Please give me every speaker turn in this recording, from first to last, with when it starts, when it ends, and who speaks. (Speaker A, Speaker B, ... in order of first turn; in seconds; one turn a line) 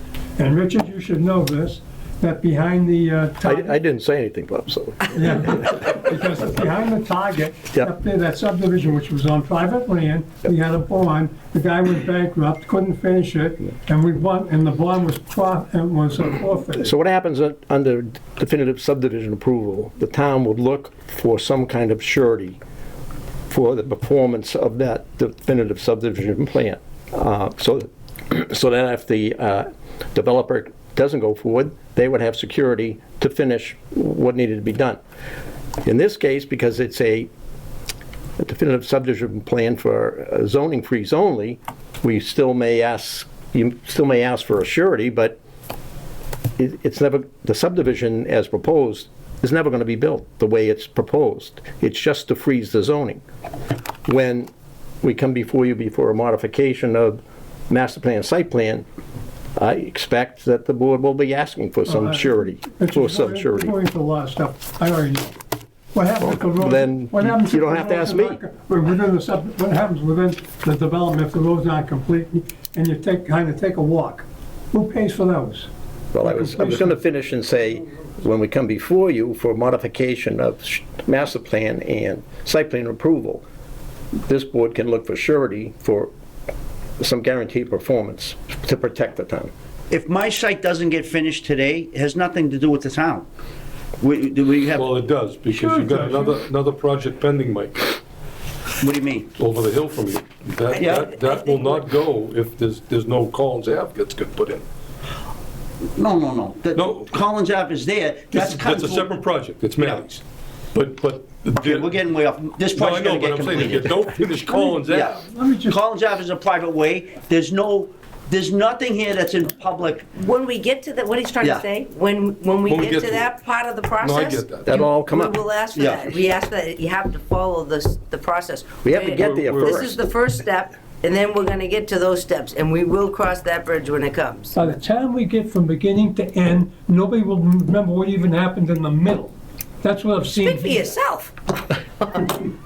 Speaker A: 0.4-3.8
Speaker B: 3.4-5.7
Speaker A: 5.1-16.9
Speaker B: 16.8-22.6
Speaker B: 23.5-35.0
Speaker B: 35.8-37.3
Speaker B: 38.4-45.4
Speaker B: 46.6-53.2
Speaker B: 54.0-54.5
Speaker B: 55.0-58.8
Speaker B: 59.6-63.7
Speaker A: 61.9-65.4
Speaker A: 65.9-77.0
Speaker B: 66.2-68.4
Speaker B: 76.1-83.4
Speaker B: 84.2-86.1
Speaker B: 87.0-89.5
Speaker C: 89.9-93.3
Speaker C: 94.0-94.9
Speaker D: 94.7-98.0
Speaker A: 95.5-96.3
Speaker C: 98.8-99.3
Speaker D: 99.4-104.6
Speaker E: 100.7-101.8
Speaker C: 100.8-101.0
Speaker C: 106.0-109.0
Speaker D: 106.7-107.1
Speaker D: 108.3-110.2
Speaker D: 110.7-111.9
Speaker C: 111.5-114.0
Speaker D: 112.7-115.1
Speaker A: 114.5-115.8
Speaker C: 114.9-120.1
Speaker E: 120.1-134.6
Speaker D: 122.7-123.2
Speaker D: 124.0-124.7
Speaker B: 124.6-125.4
Speaker C: 125.7-126.1
Speaker B: 128.8-130.0
Speaker D: 129.2-129.7
Speaker A: 134.5-140.8
Speaker E: 140.4-141.3
Speaker E: 142.0-142.3